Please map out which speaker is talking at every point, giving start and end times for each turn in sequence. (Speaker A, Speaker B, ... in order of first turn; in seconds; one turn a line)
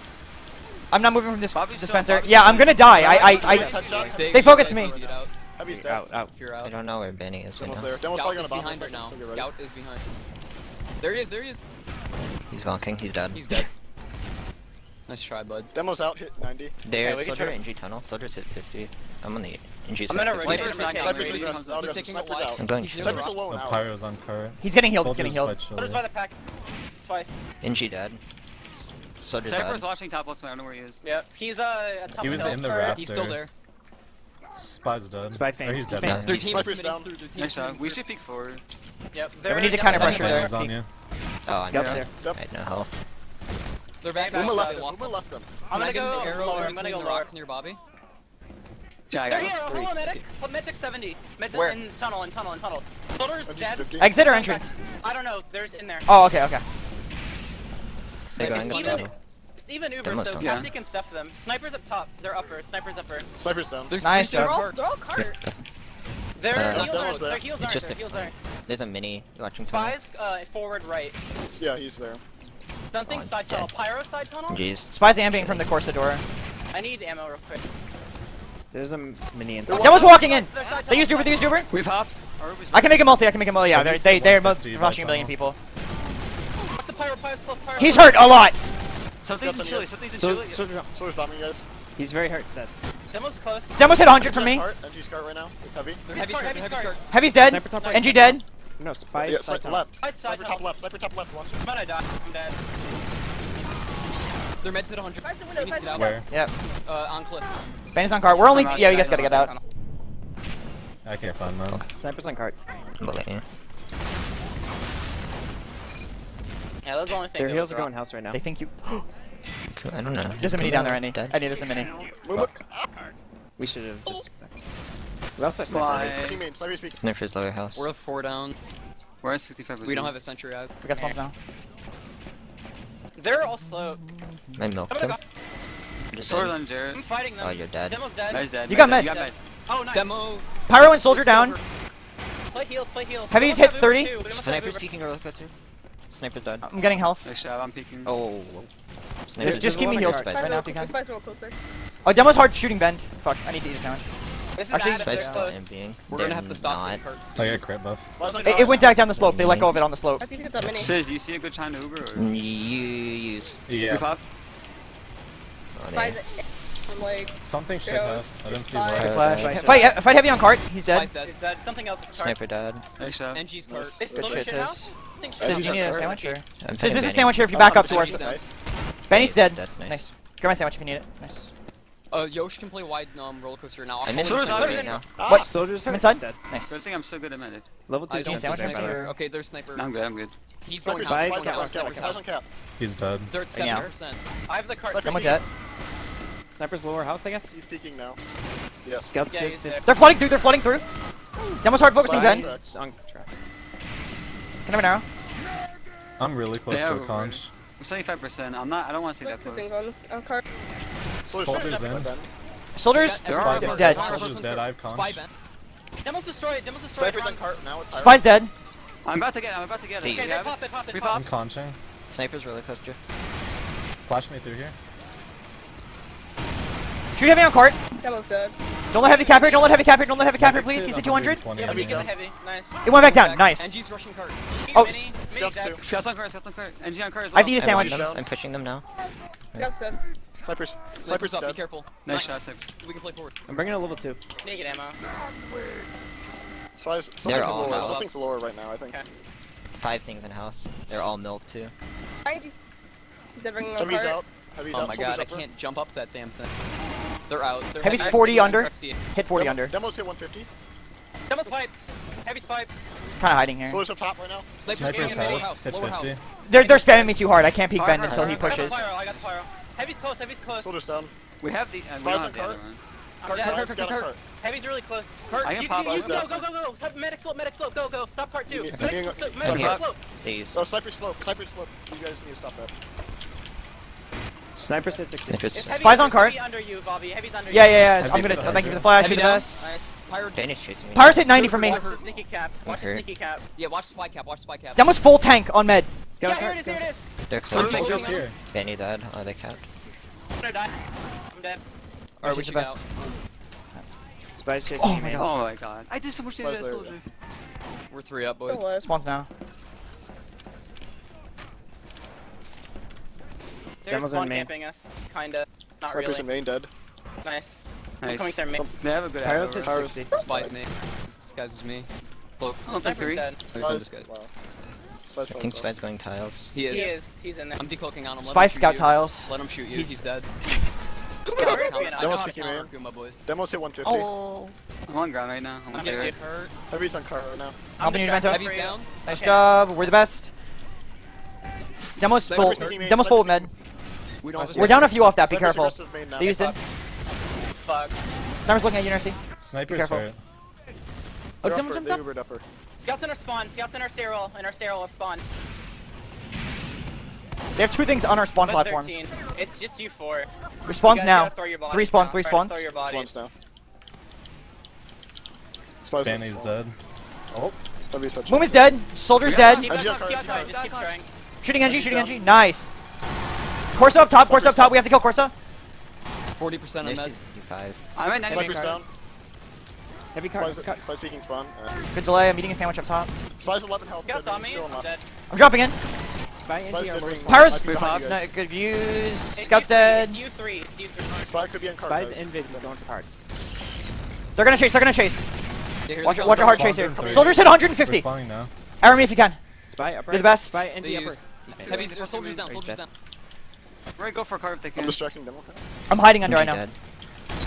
Speaker A: 0.9-3.7
Speaker B: 1.5-4.4
Speaker C: 2.9-6.1
Speaker D: 3.7-5.3
Speaker A: 4.3-5.0
Speaker E: 5.7-6.3
Speaker D: 6.3-6.7
Speaker F: 6.6-8.1
Speaker C: 7.6-9.5
Speaker D: 8.1-10.0
Speaker D: 11.0-11.7
Speaker F: 12.5-13.6
Speaker D: 13.3-13.7
Speaker D: 15.1-15.7
Speaker C: 15.7-16.8
Speaker F: 16.8-20.8
Speaker G: 17.0-17.6
Speaker G: 20.1-21.6
Speaker D: 20.4-21.0
Speaker B: 20.4-22.2
Speaker C: 20.8-23.9
Speaker D: 21.6-23.4
Speaker F: 22.6-23.3
Speaker H: 23.2-26.0
Speaker A: 24.6-25.6
Speaker G: 25.7-26.3
Speaker G: 27.0-27.3
Speaker F: 27.6-28.2
Speaker F: 29.1-29.9
Speaker B: 29.4-31.0
Speaker G: 31.0-32.9
Speaker H: 32.2-33.4
Speaker I: 32.6-33.0
Speaker D: 32.7-33.5
Speaker H: 34.5-36.2
Speaker E: 35.2-36.4
Speaker F: 36.0-36.7
Speaker C: 36.2-37.1
Speaker D: 36.2-38.0
Speaker B: 37.4-38.6
Speaker G: 39.1-40.6
Speaker A: 39.5-40.5
Speaker H: 39.9-40.9
Speaker F: 39.9-40.2
Speaker F: 41.5-42.9
Speaker E: 41.7-42.1
Speaker B: 41.7-42.0
Speaker C: 42.1-42.4
Speaker D: 44.0-45.2
Speaker G: 44.1-44.9
Speaker C: 44.3-45.6
Speaker G: 45.7-47.3
Speaker D: 45.7-47.8
Speaker C: 46.2-46.7
Speaker B: 49.1-49.9
Speaker G: 49.2-56.0
Speaker D: 49.4-50.2
Speaker D: 51.5-51.8
Speaker C: 53.5-54.1
Speaker A: 54.0-54.7
Speaker A: 56.1-56.6
Speaker D: 58.3-59.1
Speaker F: 58.3-59.1
Speaker G: 58.4-63.3
Speaker F: 60.0-60.7
Speaker B: 60.4-60.7
Speaker C: 63.4-64.0
Speaker D: 63.9-64.8
Speaker A: 64.0-64.6
Speaker I: 64.2-65.4
Speaker F: 65.1-65.5
Speaker G: 66.4-68.3
Speaker F: 66.5-70.0
Speaker C: 66.5-67.5
Speaker G: 69.6-71.2
Speaker C: 71.5-72.2
Speaker G: 72.9-74.6
Speaker F: 73.0-73.8
Speaker F: 74.5-75.7
Speaker A: 74.9-76.2
Speaker G: 76.7-77.6
Speaker E: 78.7-80.1
Speaker C: 79.7-80.0
Speaker G: 79.7-81.6
Speaker A: 79.7-81.7
Speaker B: 81.7-83.2
Speaker A: 82.7-85.6
Speaker H: 83.7-85.3
Speaker G: 86.7-88.5
Speaker A: 87.8-88.6
Speaker B: 89.2-90.7
Speaker C: 89.3-90.0
Speaker E: 90.1-90.9
Speaker C: 90.9-91.6
Speaker E: 92.0-92.7
Speaker G: 93.1-93.8
Speaker A: 93.8-94.7
Speaker C: 94.1-96.0
Speaker G: 96.1-97.0
Speaker D: 96.1-97.0
Speaker A: 97.1-98.4
Speaker E: 97.3-99.9
Speaker G: 97.7-98.3
Speaker C: 99.2-101.6
Speaker G: 100.0-100.7
Speaker G: 101.6-102.6
Speaker D: 104.6-106.2
Speaker I: 105.2-106.2
Speaker H: 105.9-106.2
Speaker D: 106.8-107.6
Speaker A: 107.9-109.5
Speaker B: 108.4-109.5
Speaker G: 108.5-109.6
Speaker H: 111.0-111.8
Speaker E: 111.9-112.5
Speaker F: 113.0-113.4
Speaker G: 116.8-117.9
Speaker E: 117.3-118.4
Speaker A: 118.3-119.0
Speaker F: 119.7-121.4
Speaker A: 120.4-122.0
Speaker E: 120.4-120.8
Speaker C: 122.2-122.8
Speaker E: 123.6-124.5
Speaker E: 125.3-126.2
Speaker B: 125.7-126.4
Speaker C: 125.8-127.0
Speaker F: 127.0-127.9
Speaker D: 127.8-128.6
Speaker B: 129.2-130.2
Speaker D: 129.8-130.7
Speaker A: 130.8-131.3
Speaker G: 130.9-131.2
Speaker G: 133.2-134.0
Speaker F: 134.6-135.2
Speaker G: 134.9-135.2
Speaker F: 136.1-136.6
Speaker B: 136.2-137.0
Speaker G: 136.9-140.1
Speaker F: 137.4-138.1
Speaker B: 138.3-139.3
Speaker A: 138.7-139.1
Speaker D: 139.9-141.6
Speaker A: 140.7-141.6
Speaker G: 142.5-144.8
Speaker A: 143.3-144.1
Speaker F: 144.3-145.5
Speaker F: 146.1-146.7
Speaker A: 146.6-147.2
Speaker B: 147.2-148.1
Speaker F: 148.0-148.7
Speaker F: 149.2-150.7
Speaker E: 149.4-150.4
Speaker A: 149.4-150.9
Speaker I: 150.3-151.6
Speaker A: 152.0-154.0
Speaker G: 154.6-155.6
Speaker A: 154.7-155.4
Speaker F: 154.9-157.0
Speaker D: 156.1-157.6
Speaker H: 157.3-158.1
Speaker C: 158.1-158.9
Speaker G: 158.2-159.0
Speaker A: 158.4-160.2
Speaker F: 159.1-159.8
Speaker I: 160.2-161.0
Speaker B: 160.7-162.3
Speaker F: 162.1-163.6
Speaker H: 163.7-164.1
Speaker B: 163.9-164.2
Speaker F: 165.7-166.2
Speaker I: 165.9-169.1
Speaker H: 167.4-169.4
Speaker F: 168.9-169.9
Speaker E: 169.0-170.0
Speaker A: 169.2-171.1
Speaker C: 169.5-169.9
Speaker D: 170.8-171.4
Speaker G: 171.2-172.4
Speaker F: 172.1-172.8
Speaker B: 173.0-173.4
Speaker D: 173.3-174.1
Speaker C: 173.6-174.5
Speaker G: 174.0-176.4
Speaker A: 174.1-178.2
Speaker C: 175.4-176.1
Speaker F: 176.6-177.6
Speaker C: 177.5-178.5
Speaker D: 177.6-178.4
Speaker A: 179.1-181.5
Speaker F: 179.1-180.1
Speaker D: 182.1-184.9
Speaker F: 184.1-185.1
Speaker B: 184.1-185.0
Speaker C: 185.2-185.5
Speaker A: 185.3-186.8
Speaker E: 185.3-186.4
Speaker B: 186.7-187.7
Speaker E: 187.9-189.2
Speaker D: 188.1-189.9
Speaker A: 188.2-189.1
Speaker B: 189.7-190.3
Speaker D: 190.6-192.2
Speaker C: 190.8-192.4
Speaker E: 190.9-192.2
Speaker H: 192.8-193.3
Speaker D: 193.3-194.2
Speaker A: 193.5-193.9
Speaker G: 194.5-195.4
Speaker C: 194.9-195.4
Speaker A: 195.0-195.4
Speaker E: 196.5-197.5
Speaker C: 197.5-198.2
Speaker C: 198.8-199.1
Speaker E: 199.0-199.8
Speaker G: 199.3-199.8
Speaker A: 199.8-200.8
Speaker A: 201.6-202.5
Speaker E: 201.7-203.3
Speaker C: 201.9-202.7
Speaker A: 204.7-205.0
Speaker H: 206.2-207.5
Speaker B: 206.7-209.7
Speaker I: 209.2-210.4
Speaker C: 211.2-212.3
Speaker H: 211.4-212.1
Speaker G: 211.4-211.9
Speaker A: 212.7-214.0
Speaker D: 212.9-215.3
Speaker B: 213.2-214.3
Speaker H: 213.3-215.2
Speaker G: 216.0-217.4
Speaker C: 216.9-218.3
Speaker A: 217.9-218.5
Speaker B: 219.0-221.2
Speaker F: 220.0-220.3
Speaker G: 220.1-221.2
Speaker H: 221.1-221.8
Speaker F: 222.1-223.0
Speaker H: 224.0-224.7
Speaker A: 227.1-227.8
Speaker I: 228.0-228.5
Speaker A: 228.9-231.4
Speaker G: 229.0-229.7
Speaker H: 230.4-232.1
Speaker G: 231.5-232.8
Speaker C: 231.6-232.1
Speaker A: 232.8-233.7
Speaker D: 232.9-234.4
Speaker G: 234.7-235.8
Speaker A: 234.7-235.1
Speaker C: 235.3-235.8
Speaker B: 235.8-237.6
Speaker A: 237.3-238.0
Speaker F: 237.6-238.8
Speaker C: 237.6-238.2
Speaker I: 239.6-240.0
Speaker C: 240.4-241.6
Speaker D: 240.9-241.9
Speaker B: 242.0-242.6
Speaker G: 242.1-242.4
Speaker D: 242.8-243.7
Speaker E: 243.5-244.2
Speaker G: 244.4-245.0
Speaker C: 246.7-249.0
Speaker F: 247.2-248.1
Speaker D: 247.2-248.1
Speaker F: 249.7-251.7
Speaker I: 252.2-252.5
Speaker I: 253.3-254.2
Speaker C: 253.8-255.4
Speaker D: 254.7-256.5
Speaker D: 257.3-259.0
Speaker A: 257.8-259.7
Speaker G: 257.9-258.7
Speaker C: 259.3-260.5
Speaker G: 261.3-262.7
Speaker A: 263.2-263.8
Speaker C: 263.6-264.5
Speaker D: 264.6-266.1
Speaker H: 264.7-266.2
Speaker G: 264.7-265.5
Speaker A: 266.4-268.8
Speaker G: 266.6-267.2
Speaker B: 267.7-269.2
Speaker F: 268.1-268.4
Speaker G: 268.2-270.7
Speaker C: 270.6-271.1
Speaker B: 271.4-272.8
Speaker C: 271.9-272.6
Speaker G: 273.2-273.8
Speaker C: 273.2-274.2
Speaker D: 273.3-274.1
Speaker G: 274.3-280.0
Speaker D: 275.3-276.1
Speaker B: 275.4-276.4
Speaker C: 275.9-276.3
Speaker C: 278.5-279.5
Speaker F: 278.8-280.6
Speaker B: 279.5-279.8
Speaker C: 280.5-282.7
Speaker E: 284.5-285.6
Speaker F: 285.3-285.8
Speaker G: 285.5-289.8
Speaker A: 285.7-286.4
Speaker A: 287.5-289.6
Speaker H: 288.0-288.9
Speaker D: 288.9-290.5
Speaker F: 290.3-291.4
Speaker A: 290.9-291.8
Speaker D: 291.2-292.0
Speaker G: 291.4-293.4
Speaker F: 292.6-293.0
Speaker D: 293.6-294.9
Speaker A: 294.8-295.9
Speaker E: 296.1-296.9
Speaker G: 296.2-298.2
Speaker F: 297.3-299.7
Speaker B: 297.4-298.2
Speaker H: 297.6-298.4
Speaker G: 300.4-300.7
Speaker G: 301.3-301.6
Speaker A: 302.2-302.8
Speaker G: 302.2-302.8
Speaker E: 304.3-305.4
Speaker A: 304.8-305.3
Speaker B: 305.2-307.1
Speaker C: 306.4-307.0
Speaker D: 307.9-308.6
Speaker I: 308.5-308.9
Speaker A: 308.8-309.3
Speaker G: 313.8-316.3
Speaker E: 313.9-314.5
Speaker C: 315.9-316.7
Speaker G: 317.2-318.6
Speaker B: 318.0-319.8
Speaker E: 319.2-320.2
Speaker C: 319.7-320.5
Speaker D: 320.1-321.9
Speaker B: 322.4-323.3
Speaker G: 322.7-323.4
Speaker D: 323.5-324.1
Speaker C: 323.5-324.3
Speaker C: 325.1-325.7
Speaker F: 325.3-326.6
Speaker D: 326.5-327.0
Speaker G: 326.6-327.6
Speaker D: 327.6-330.3
Speaker A: 328.2-330.7
Speaker G: 331.3-332.4
Speaker D: 331.4-333.2
Speaker C: 332.0-332.7
Speaker C: 333.2-334.1
Speaker F: 333.8-334.5
Speaker B: 334.9-336.1
Speaker G: 335.7-336.1
Speaker D: 335.7-336.5
Speaker C: 336.7-337.6
Speaker G: 337.8-339.9
Speaker A: 337.8-338.4
Speaker D: 338.2-338.9
Speaker A: 339.1-340.3
Speaker A: 342.0-343.5
Speaker C: 342.2-343.5
Speaker D: 342.3-342.7
Speaker D: 344.2-345.1
Speaker C: 344.5-346.5
Speaker A: 344.5-346.6
Speaker G: 346.2-346.5
Speaker G: 347.6-348.0
Speaker A: 348.4-350.1
Speaker H: 349.4-350.2
Speaker A: 351.4-352.0
Speaker C: 351.4-352.4
Speaker E: 351.4-351.9
Speaker G: 352.8-355.2
Speaker A: 357.6-359.0
Speaker G: 358.4-360.3
Speaker A: 360.7-362.6
Speaker G: 360.8-363.1
Speaker C: 362.8-363.3
Speaker C: 365.8-366.6
Speaker H: 366.0-366.8
Speaker H: 367.3-367.6
Speaker C: 367.9-368.7
Speaker A: 368.3-369.7
Speaker B: 369.2-370.9
Speaker G: 369.4-371.1
Speaker C: 369.6-370.6
Speaker A: 371.4-372.7
Speaker C: 371.6-372.2
Speaker A: 373.7-375.3
Speaker C: 373.9-374.9
Speaker D: 376.4-377.1
Speaker F: 376.8-377.8
Speaker B: 377.9-378.8
Speaker C: 378.2-378.9
Speaker E: 378.3-378.8
Speaker E: 380.1-380.8
Speaker C: 380.3-381.8
Speaker A: 381.9-383.1
Speaker C: 383.4-384.9
Speaker G: 384.0-385.0
Speaker A: 385.3-385.8
Speaker E: 386.4-387.7
Speaker C: 386.6-388.3
Speaker A: 387.3-390.2
Speaker B: 387.7-388.1
Speaker G: 389.3-391.4
Speaker C: 391.2-392.8
Speaker E: 391.7-393.1
Speaker A: 394.4-395.2
Speaker D: 395.9-396.8
Speaker A: 396.0-398.1
Speaker C: 396.2-397.5
Speaker H: 396.6-398.5
Speaker A: 398.8-399.4
Speaker E: 399.7-401.9
Speaker A: 400.1-400.6
Speaker D: 400.8-402.9
Speaker B: 401.6-402.5
Speaker E: 402.4-402.8
Speaker B: 404.0-405.0
Speaker C: 404.7-405.6
Speaker A: 405.9-406.6
Speaker F: 406.2-406.7